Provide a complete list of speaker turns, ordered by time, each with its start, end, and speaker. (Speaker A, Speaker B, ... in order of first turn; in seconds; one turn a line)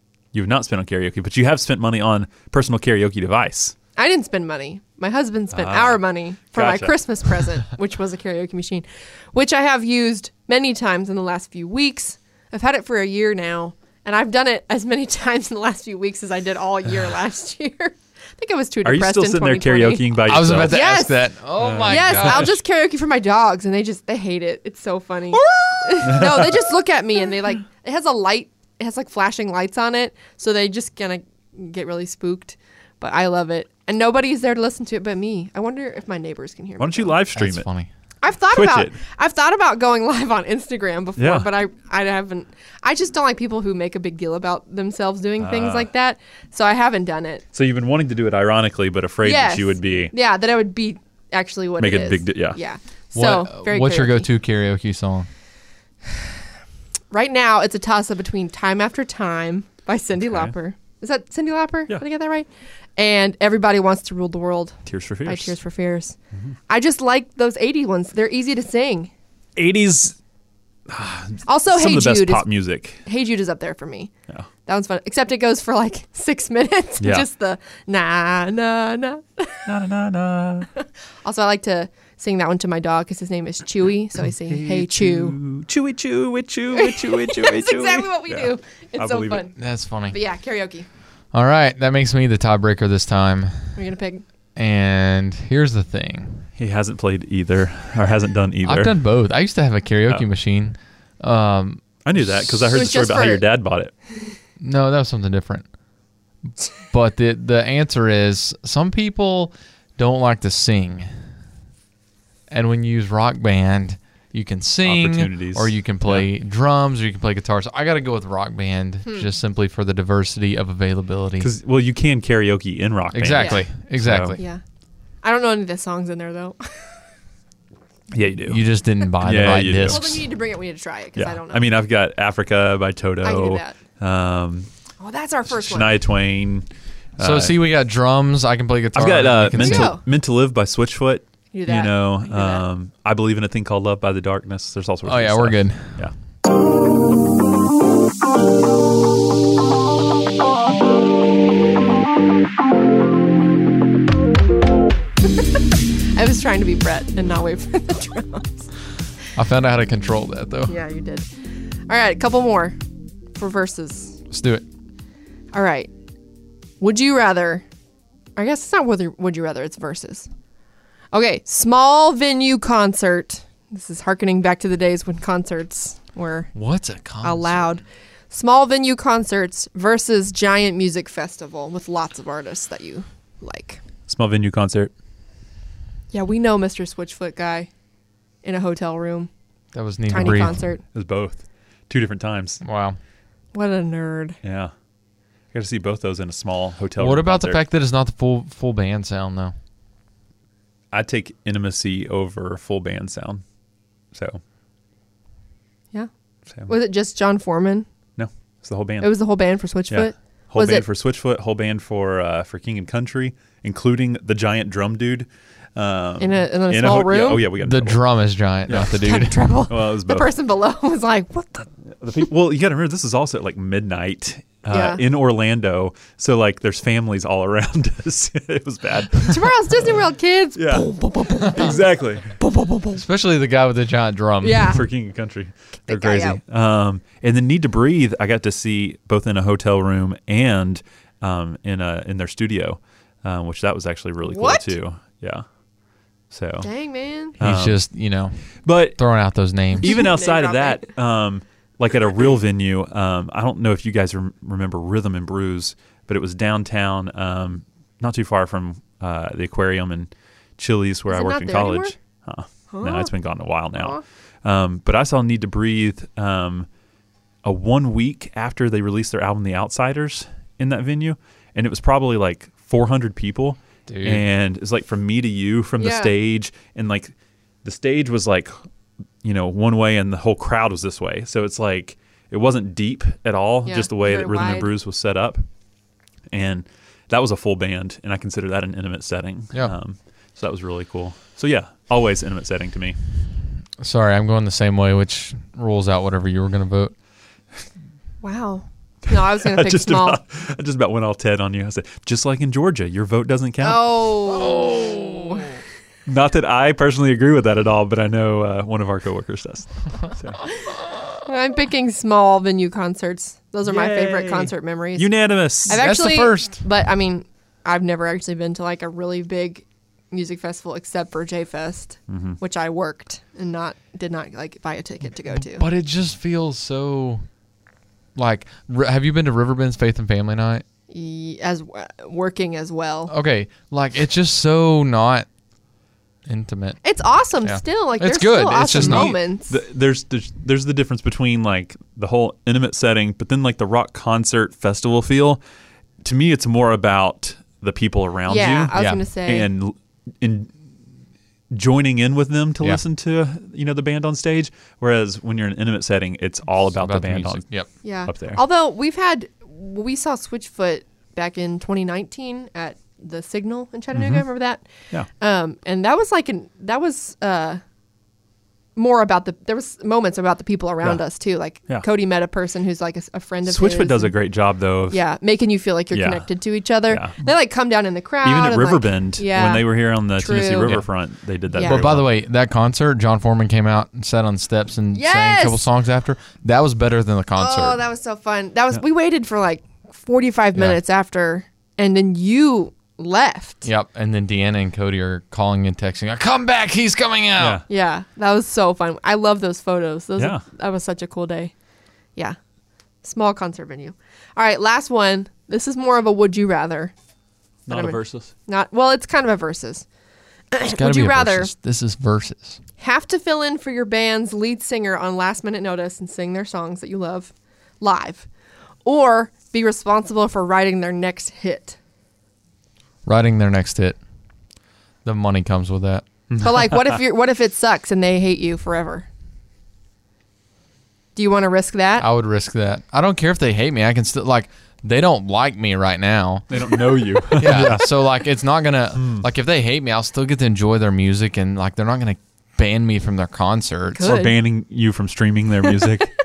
Speaker A: 0.3-3.7
Speaker B: 4.0-21.3
Speaker A: 5.5-7.0
Speaker A: 18.8-20.8
Speaker C: 20.2-22.5
Speaker A: 21.6-22.5
Speaker B: 21.8-37.2
Speaker A: 25.4-26.6
Speaker A: 36.8-37.7
Speaker C: 37.3-37.9
Speaker B: 38.2-47.4
Speaker A: 38.5-39.0
Speaker A: 41.2-41.5
Speaker A: 45.4-45.9
Speaker A: 47.5-50.1
Speaker B: 49.2-54.3
Speaker A: 51.8-52.6
Speaker C: 53.1-55.3
Speaker B: 57.1-66.2
Speaker A: 64.8-65.5
Speaker B: 66.7-69.1
Speaker A: 69.5-70.2
Speaker A: 70.9-73.0
Speaker B: 71.5-72.5
Speaker B: 73.0-74.1
Speaker B: 74.7-79.7
Speaker A: 77.0-77.2
Speaker A: 79.7-80.7
Speaker B: 80.8-85.4
Speaker A: 84.2-89.5
Speaker B: 86.7-89.5
Speaker C: 89.6-90.2
Speaker B: 90.1-90.8
Speaker C: 91.3-93.8
Speaker B: 93.8-94.2
Speaker C: 94.5-96.5
Speaker A: 96.6-98.9
Speaker C: 98.6-101.8
Speaker A: 102.0-103.9
Speaker B: 102.7-103.4
Speaker C: 104.6-105.6
Speaker C: 106.8-111.1
Speaker C: 112.5-121.5
Speaker A: 114.8-116.3
Speaker A: 121.4-124.4
Speaker C: 123.1-124.4
Speaker B: 123.3-123.7
Speaker B: 124.3-124.6
Speaker B: 125.2-126.9
Speaker A: 128.1-128.6
Speaker C: 128.4-130.2
Speaker A: 129.2-130.2
Speaker B: 129.9-131.6
Speaker A: 131.2-134.7
Speaker B: 133.2-133.8
Speaker B: 135.0-135.9
Speaker A: 135.5-136.7
Speaker A: 137.2-137.6
Speaker C: 137.2-139.9
Speaker A: 138.9-146.1
Speaker B: 139.6-140.0
Speaker B: 141.5-142.6
Speaker C: 145.0-146.0
Speaker B: 156.1-158.7
Speaker C: 159.3-160.8
Speaker B: 160.7-161.3
Speaker B: 161.9-162.8
Speaker B: 163.3-164.2
Speaker C: 164.3-164.6
Speaker B: 165.5-165.9
Speaker B: 166.8-167.6
Speaker B: 168.3-170.3
Speaker B: 171.1-176.5
Speaker C: 176.5-177.6
Speaker B: 177.2-183.8
Speaker A: 184.1-184.9
Speaker B: 186.1-187.7
Speaker B: 188.4-189.3
Speaker C: 189.7-190.6
Speaker B: 190.1-190.8
Speaker A: 190.1-192.6
Speaker C: 192.6-193.0
Speaker B: 193.5-194.4
Speaker A: 194.4-194.7
Speaker A: 195.5-197.6
Speaker C: 197.0-199.5
Speaker A: 200.9-203.4
Speaker A: 204.1-204.4
Speaker B: 206.7-207.9
Speaker A: 208.2-209.1
Speaker B: 209.0-210.8
Speaker A: 209.9-218.0
Speaker B: 216.2-217.4
Speaker C: 217.6-219.5
Speaker A: 218.7-219.0
Speaker B: 218.9-221.6
Speaker A: 219.7-220.3
Speaker A: 221.9-229.9
Speaker B: 224.7-225.0
Speaker B: 229.2-233.0
Speaker A: 230.6-232.3
Speaker C: 232.9-234.8
Speaker B: 234.4-234.8
Speaker A: 234.7-245.4
Speaker B: 235.9-236.4
Speaker B: 244.2-244.7
Speaker A: 246.3-246.7
Speaker B: 246.6-247.3
Speaker A: 247.4-247.8
Speaker C: 247.4-250.0
Speaker A: 248.6-249.0
Speaker B: 249.8-250.9
Speaker A: 249.8-266.7
Speaker B: 261.1-261.9
Speaker B: 262.7-263.1
Speaker B: 263.7-264.0
Speaker A: 267.4-277.1
Speaker C: 273.9-274.2
Speaker B: 275.8-276.1
Speaker A: 277.6-278.5
Speaker A: 279.2-285.4
Speaker B: 283.6-284.7
Speaker A: 286.3-292.9
Speaker C: 293.8-296.9
Speaker B: 298.2-300.2
Speaker A: 299.1-304.0
Speaker B: 303.6-305.5
Speaker C: 304.3-305.5
Speaker A: 306.1-310.4
Speaker B: 311.2-315.1
Speaker A: 313.6-315.8
Speaker B: 315.6-325.6
Speaker C: 315.7-316.6
Speaker A: 322.1-322.4
Speaker C: 325.3-327.2
Speaker C: 328.1-330.6
Speaker B: 330.9-333.1
Speaker C: 333.1-335.3
Speaker C: 336.2-336.8
Speaker B: 336.8-339.6
Speaker C: 337.4-339.1
Speaker A: 338.7-345.4
Speaker A: 346.0-350.5
Speaker B: 348.3-349.5
Speaker C: 348.7-349.0
Speaker A: 351.5-357.4
Speaker C: 356.8-357.7
Speaker B: 357.8-364.6
Speaker A: 358.1-358.4
Speaker A: 363.9-364.2
Speaker B: 365.2-367.6
Speaker B: 368.8-374.1
Speaker A: 373.4-375.0
Speaker B: 374.9-380.8
Speaker A: 375.9-376.2
Speaker A: 376.9-377.2
Speaker A: 378.2-382.1
Speaker B: 381.5-381.9
Speaker C: 381.6-387.8
Speaker B: 384.9-385.7
Speaker B: 387.4-393.6
Speaker C: 393.6-397.6
Speaker A: 397.4-397.6
Speaker B: 397.7-401.5
Speaker A: 400.2-400.4
Speaker B: 403.0-406.9
Speaker A: 407.7-408.3
Speaker B: 407.7-409.9
Speaker B: 410.5-411.5
Speaker C: 410.6-412.6
Speaker B: 412.8-418.3
Speaker B: 418.8-421.8
Speaker C: 423.0-424.0
Speaker C: 425.0-426.1
Speaker A: 426.3-426.8
Speaker B: 426.4-429.1
Speaker B: 431.1-432.1
Speaker C: 432.0-436.5
Speaker A: 436.5-438.0
Speaker C: 437.3-444.2
Speaker A: 438.9-439.2
Speaker B: 443.9-444.4
Speaker A: 444.0-446.1